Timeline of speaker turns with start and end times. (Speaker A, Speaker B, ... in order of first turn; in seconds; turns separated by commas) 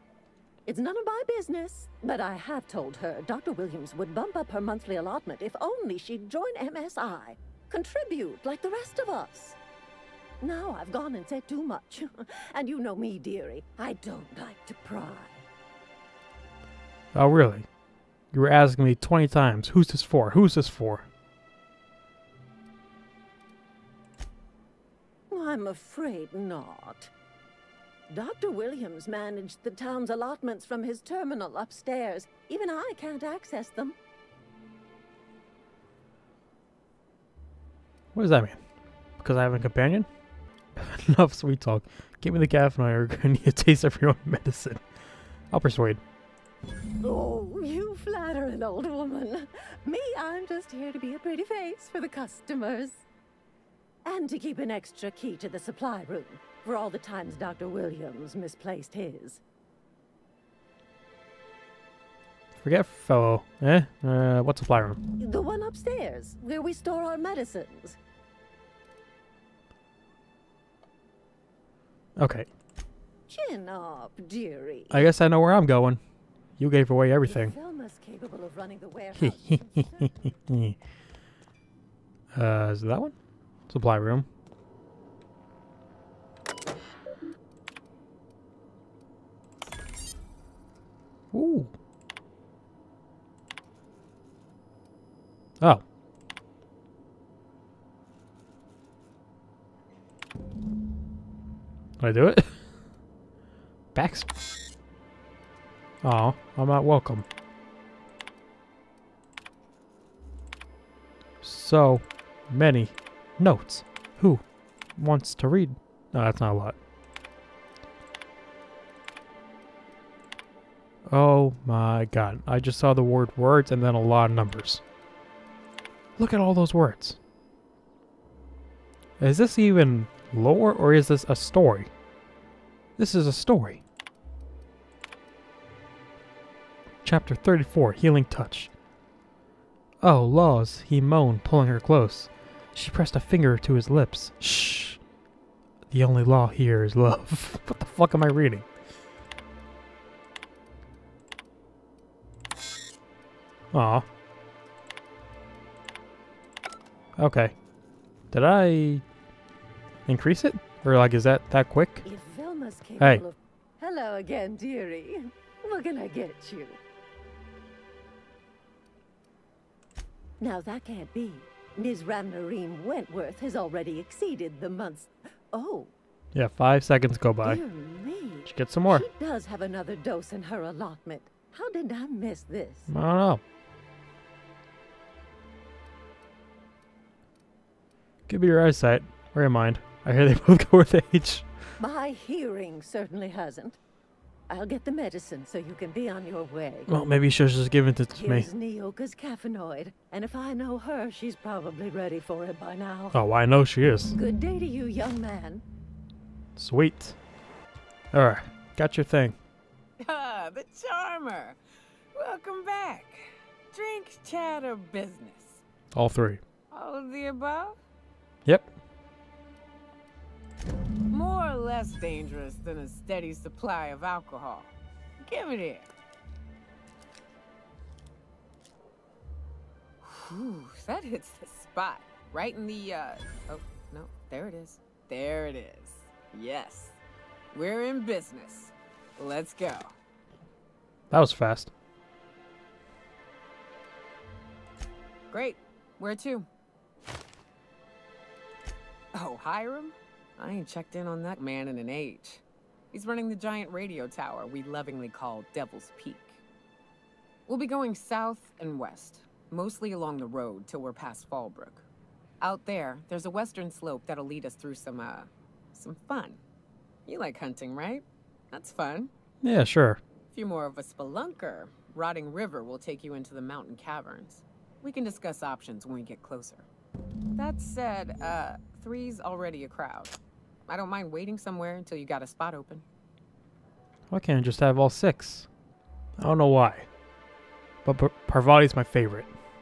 Speaker A: 0.7-9.6, Speaker A: 10.4-15.4, Speaker B: 17.1-17.7, Speaker B: 18.3-21.1, Speaker A: 25.3-27.1, Speaker A: 28.1-34.0, Speaker B: 38.1-38.6, Speaker B: 39.2-40.1, Speaker B: 40.8-44.8, Speaker B: 45.5-46.0, Speaker A: 47.0-53.0, Speaker A: 54.0-59.4, Speaker B: 62.6-65.0, Speaker A: 65.2-68.0, Speaker B: 72.2-72.5, Speaker A: 73.3-75.1, Speaker B: 74.9-76.0, Speaker B: 76.6-77.5, Speaker A: 77.2-80.3, Speaker B: 79.2-80.8, Speaker B: 82.3-83.1, Speaker B: 83.7-84.3, Speaker B: 91.3-91.7, Speaker B: 102.0-102.6, Speaker B: 103.9-104.3, Speaker B: 106.0-107.2, Speaker B: 111.4-114.4, Speaker B: 115.0-116.8, Speaker B: 121.1-124.8, Speaker B: 126.2-127.2, Speaker B: 129.2-131.9, Speaker B: 133.0-133.8, Speaker B: 137.0-138.7, Speaker B: 140.0-145.0, Speaker B: 145.9-148.7, Speaker B: 153.7-154.0, Speaker B: 157.2-157.5, Speaker B: 158.3-159.0, Speaker B: 160.1-162.0, Speaker A: 162.0-166.8, Speaker A: 170.4-175.9, Speaker B: 176.3-177.6, Speaker A: 177.4-182.9, Speaker B: 178.5-179.0, Speaker B: 182.9-183.4, Speaker B: 188.3-191.5, Speaker A: 191.8-193.8, Speaker A: 194.5-196.9, Speaker B: 196.9-198.5, Speaker A: 198.2-203.2, Speaker B: 203.1-204.1, Speaker A: 204.1-205.6, Speaker B: 206.6-207.2, Speaker B: 208.1-209.4, Speaker C: 210.0-211.6, Speaker C: 212.1-215.6, Speaker B: 215.9-216.4, Speaker C: 216.7-217.8, Speaker C: 221.1-225.9, Speaker C: 230.0-237.0, Speaker C: 237.5-239.9, Speaker B: 241.1-241.7, Speaker C: 245.3-246.5, Speaker C: 249.1-256.4, Speaker C: 257.5-261.8, Speaker C: 262.4-266.4, Speaker C: 267.1-269.1, Speaker B: 269.4-270.0, Speaker C: 270.3-276.7, Speaker C: 277.4-282.8, Speaker B: 284.1-285.5, Speaker B: 286.2-286.9, Speaker B: 287.8-289.3